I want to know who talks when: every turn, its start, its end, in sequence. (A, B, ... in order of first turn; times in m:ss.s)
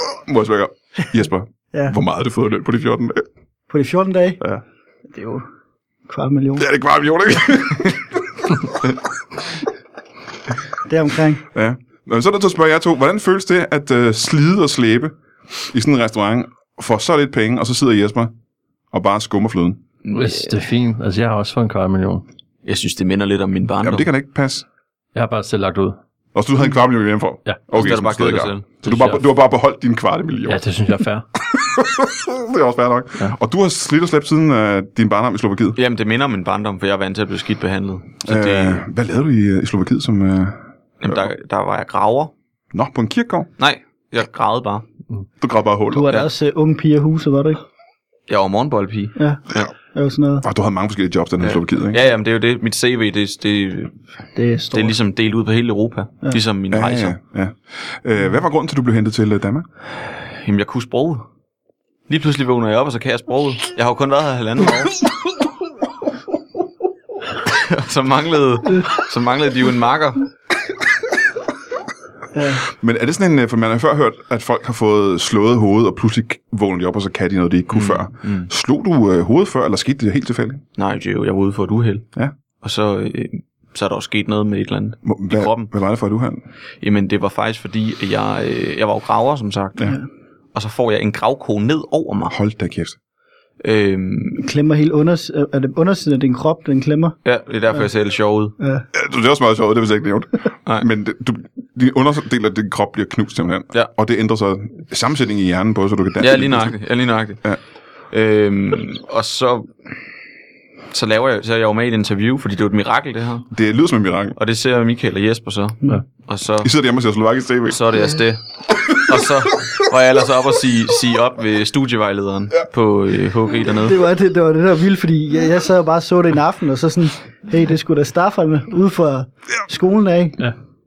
0:00.2-0:03.2 A
0:03.7-0:04.4 B
0:05.1-0:05.4 B
0:06.1-0:06.7 B
0:06.6-0:08.0 A
0:10.9-0:11.4 B
0:11.5-0:15.1 A
0:15.7-0:18.3 A
0:18.9-0:19.8 A
0:20.0-0:20.5 C
0:20.1-0:22.2 D
0:22.6-0:24.1 C
0:23.8-0:24.6 A
0:25.1-0:26.0 D
0:26.3-0:30.6 A
0:27.7-0:28.7 C
0:28.8-0:29.2 D
0:30.5-0:31.3 D
0:31.5-0:35.8 A
0:35.8-0:38.8 C
0:38.2-0:41.3 A
0:41.0-0:42.3 C
0:42.7-0:43.5 A
0:43.6-0:44.8 C
0:45.4-0:46.1 A
0:45.9-0:47.6 B
0:48.3-0:49.7 C
0:49.2-0:50.4 B
0:50.4-0:52.0 A
0:51.4-0:54.0 C
0:54.4-0:55.0 B
0:54.7-0:57.2 C
0:56.7-0:59.6 A
1:00.3-1:01.2 C
1:02.1-1:05.0 C
1:07.4-1:10.3 C
1:12.3-1:12.6 B
1:12.7-1:20.6 A
1:17.7-1:18.5 C
1:20.8-1:22.1 C
1:22.6-1:25.7 C
1:25.0-1:26.4 A
1:26.8-1:30.0 C
1:30.5-1:32.3 C
1:32.3-1:33.0 A
1:33.6-1:34.5 C
1:34.4-1:37.2 B
1:37.2-1:38.5 C
1:38.6-1:38.8 B
1:38.9-1:46.7 A
1:46.2-1:47.4 C
1:48.1-1:49.8 C
1:50.9-1:53.5 C
1:53.5-1:54.4 A
1:54.4-1:56.7 C
1:56.6-1:57.8 A
1:57.7-2:04.0 C
2:03.7-2:10.5 B